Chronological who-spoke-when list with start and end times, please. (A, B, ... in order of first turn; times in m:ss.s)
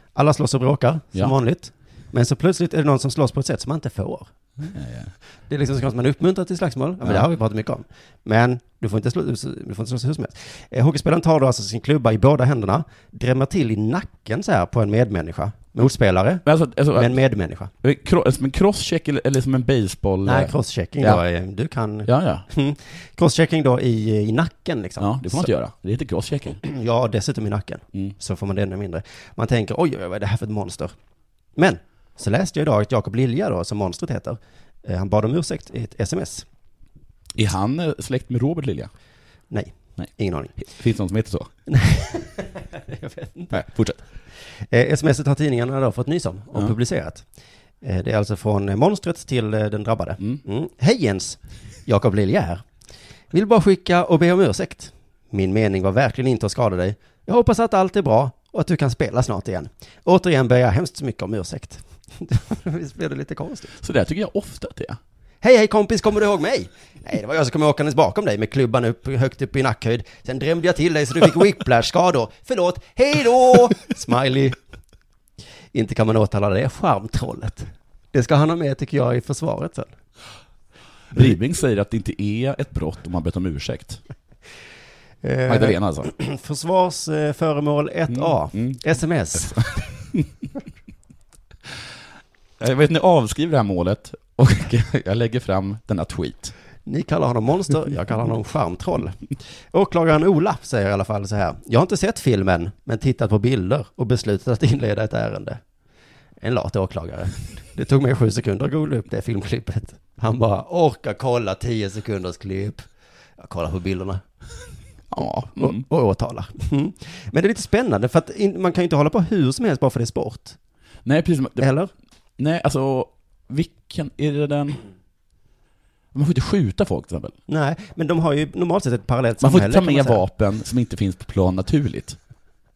0:00.1-0:04.3 A
0:04.6-0:05.1 B
0:05.5-0:17.7 A
0:16.4-0:17.2 B
0:17.8-0:21.2 B
0:20.2-0:25.5 A
0:22.0-0:22.4 B
0:25.0-0:26.6 B
0:26.6-0:30.9 A
0:31.6-0:36.4 A
0:37.3-0:38.9 B
0:39.5-0:40.6 A
0:40.0-0:41.5 B
0:41.7-0:43.6 A
0:43.5-0:44.0 B
0:44.4-0:47.2 A
0:47.8-0:52.6 A
0:53.3-1:03.7 A
1:03.8-1:05.0 B
1:05.4-1:14.6 A
1:15.7-1:19.9 A
1:21.1-1:24.0 B
1:25.2-1:29.7 A
1:25.4-1:26.1 B
1:28.1-1:28.8 B
1:29.3-1:30.3 B
1:32.6-1:36.5 B
1:36.8-1:45.6 A
1:46.4-1:54.2 A
1:55.1-1:55.8 B
1:55.5-2:00.6 A
2:01.0-2:01.7 B
2:01.6-2:01.9 A
2:02.4-2:04.8 B
2:06.1-2:07.3 B
2:07.5-2:10.2 A
2:09.4-2:12.2 B